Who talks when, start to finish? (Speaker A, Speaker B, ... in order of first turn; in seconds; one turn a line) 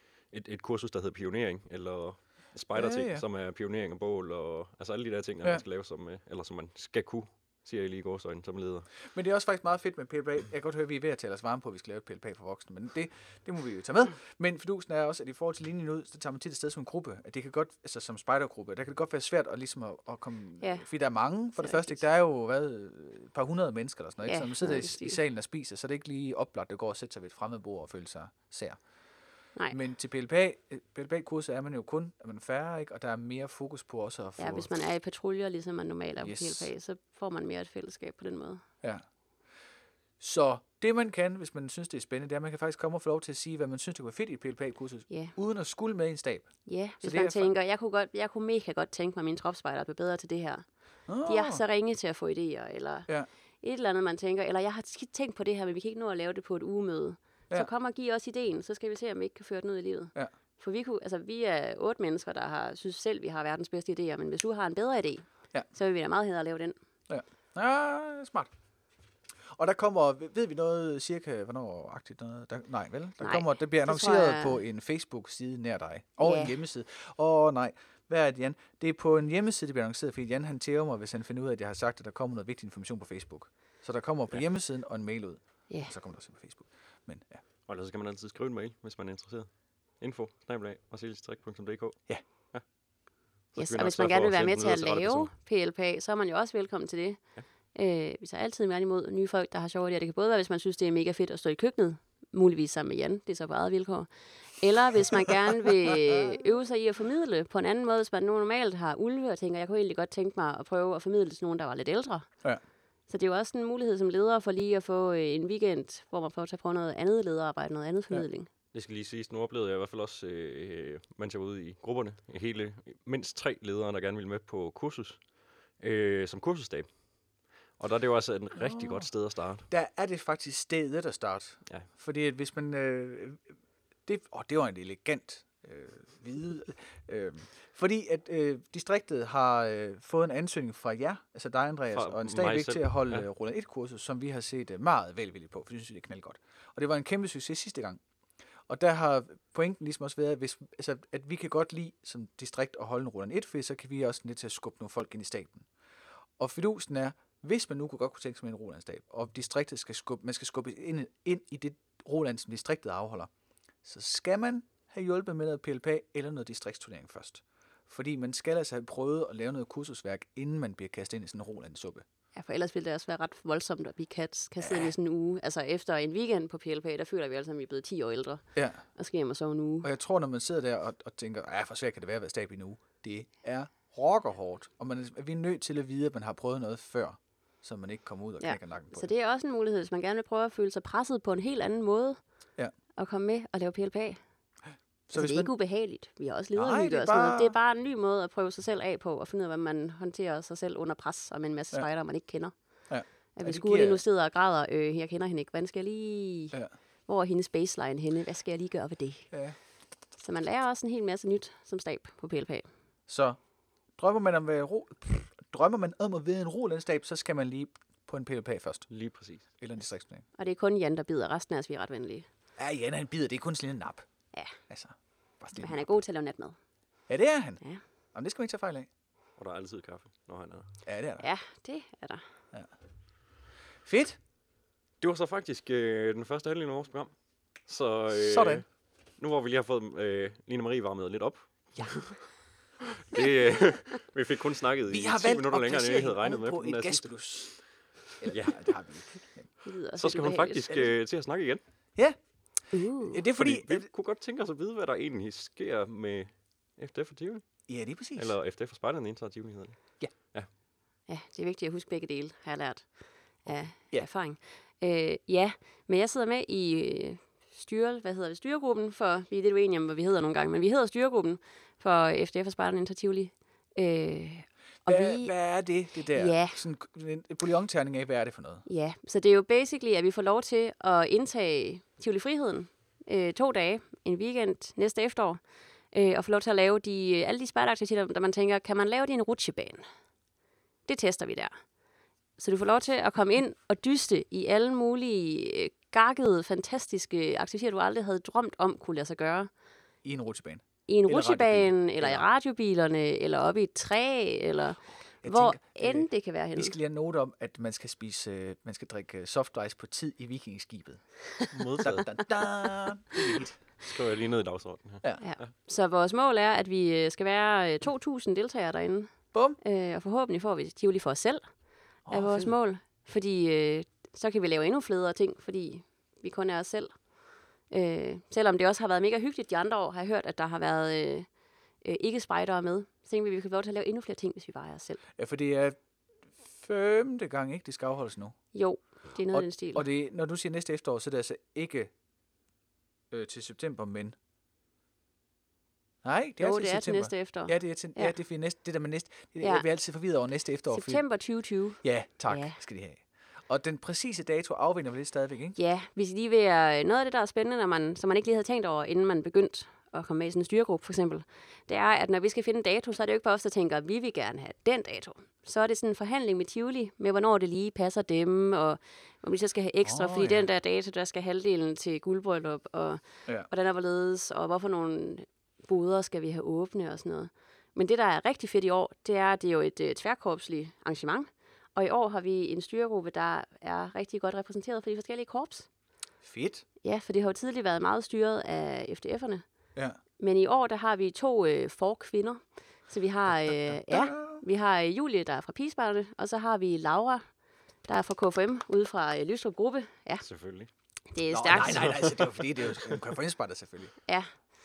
Speaker A: 0.3-8.9
Speaker B: 2.7-3.2
Speaker B: 9.1-28.8
Speaker C: 20.6-20.9
Speaker C: 21.6-22.0
Speaker C: 24.2-25.2
Speaker B: 29.7-34.7
Speaker C: 34.4-38.6
Speaker B: 36.2-36.7
Speaker B: 40.2-46.5
Speaker C: 45.1-45.4
Speaker C: 46.7-50.6
Speaker B: 47.0-47.5
Speaker B: 51.1-51.6
Speaker C: 51.2-53.1
Speaker C: 53.6-66.7
Speaker B: 67.1-68.5
Speaker B: 69.5-87.4
Speaker C: 73.2-74.6
Speaker C: 76.2-76.6
Speaker A: 87.7-92.0
Speaker A: 93.5-95.3
Speaker C: 93.6-112.3
Speaker B: 105.1-106.4
Speaker C: 113.1-118.5
Speaker A: 118.7-125.2
Speaker A: 125.8-126.9
Speaker A: 127.8-129.7
Speaker B: 128.6-129.1
Speaker B: 129.7-133.4
Speaker B: 134.1-148.0
Speaker A: 141.9-143.3
Speaker B: 148.7-155.7
Speaker B: 156.4-163.3
Speaker B: 163.8-172.1
Speaker C: 172.3-179.9
Speaker B: 174.6-174.9
Speaker B: 178.6-178.8
Speaker B: 179.8-189.1
Speaker C: 188.4-192.2
Speaker C: 193.0-194.2
Speaker B: 195.1-195.5
Speaker C: 195.2-202.5
Speaker B: 196.6-197.6
Speaker B: 202.9-204.0
Speaker C: 203.3-209.3
Speaker C: 210.2-212.7
Speaker B: 213.1-213.4
Speaker B: 214.0-218.9
Speaker A: 218.9-219.4
Speaker B: 219.6-220.2
Speaker C: 220.4-222.3
Speaker B: 222.6-224.1
Speaker B: 224.7-226.0
Speaker C: 225.6-226.6
Speaker B: 227.1-227.6
Speaker B: 228.1-228.9
Speaker A: 229.4-230.7
Speaker B: 230.8-231.3
Speaker C: 231.2-232.2
Speaker B: 233.8-234.2
Speaker A: 235.0-237.1
Speaker A: 237.7-238.7
Speaker B: 238.1-238.6
Speaker A: 239.2-242.2
Speaker A: 243.0-247.1
Speaker B: 244.9-247.6
Speaker B: 248.2-249.5
Speaker A: 248.3-248.7
Speaker C: 249.6-250.7
Speaker A: 250.0-251.6
Speaker C: 252.7-253.2
Speaker B: 253.0-253.9
Speaker A: 253.4-257.5
Speaker B: 257.7-258.3
Speaker A: 258.2-260.5
Speaker C: 261.1-262.9
Speaker C: 263.4-275.3
Speaker B: 274.9-278.6
Speaker C: 276.1-276.6
Speaker C: 278.7-285.4
Speaker C: 285.9-289.8
Speaker C: 290.9-291.5
Speaker C: 292.4-299.5
Speaker B: 300.0-302.2
Speaker C: 300.9-306.8
Speaker B: 305.2-311.0
Speaker A: 311.5-312.1
Speaker B: 311.8-313.6
Speaker A: 313.8-315.5
Speaker C: 315.2-321.5
Speaker B: 322.1-322.5
Speaker C: 322.1-327.0
Speaker C: 327.7-331.3
Speaker C: 331.8-335.0
Speaker B: 335.2-335.8
Speaker B: 336.4-338.4
Speaker C: 338.5-339.9
Speaker B: 339.3-341.9
Speaker B: 343.1-344.2
Speaker B: 346.0-351.0
Speaker C: 346.4-348.1
Speaker C: 349.4-349.7
Speaker C: 350.7-352.6
Speaker B: 351.8-355.6
Speaker C: 355.6-385.7
Speaker B: 369.8-370.5
Speaker B: 386.2-386.6
Speaker C: 386.8-389.4
Speaker C: 390.2-397.2
Speaker B: 393.3-394.4
Speaker C: 397.9-400.2
Speaker A: 400.2-400.7
Speaker C: 401.1-402.1
Speaker B: 401.3-403.9